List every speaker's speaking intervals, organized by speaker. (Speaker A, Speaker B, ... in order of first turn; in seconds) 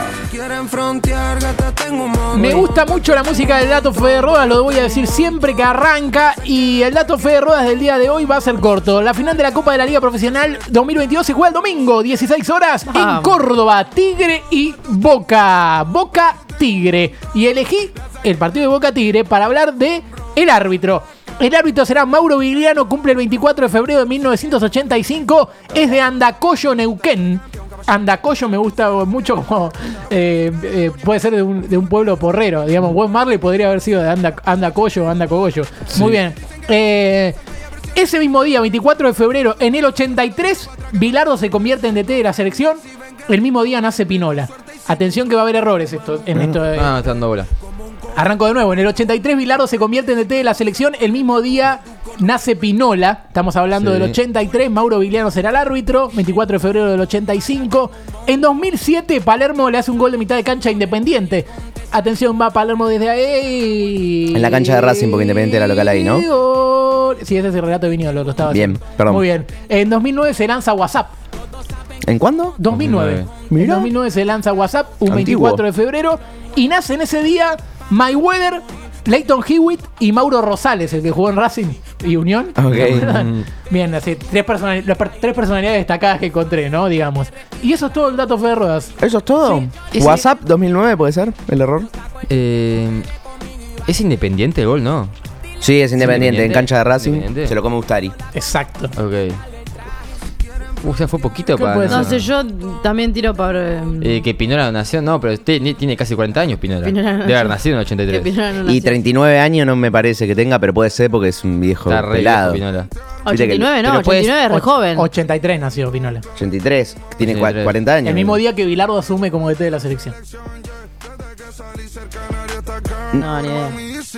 Speaker A: 0.3-2.3
Speaker B: 2.3-37.4, 38.0-46.9, 48.1-71.1, 72.6-88.9, 98.3-98.9, 101.5-102.2, 114.5-116.3, 118.0-120.2
Speaker C: 12.9-13.4, 101.8-104.3, 106.8-109.0, 113.3-115.1, 123.2-123.8
Speaker D: 46.7-47.5, 53.8-54.2, 72.7-73.3, 82.7-83.5, 92.3-93.1, 93.9-95.1, 96.0-97.5, 99.0-99.4, 100.8-102.3, 104.0-108.3, 111.9-112.9, 113.8-114.4, 117.2-117.8
Speaker E: 64.3-66.3, 68.5-69.2, 72.0-72.6, 73.5-73.9, 75.1-75.6, 82.6-83.2, 89.0-91.9, 95.6-98.1, 108.7-112.6, 113.3-113.8, 116.4-118.4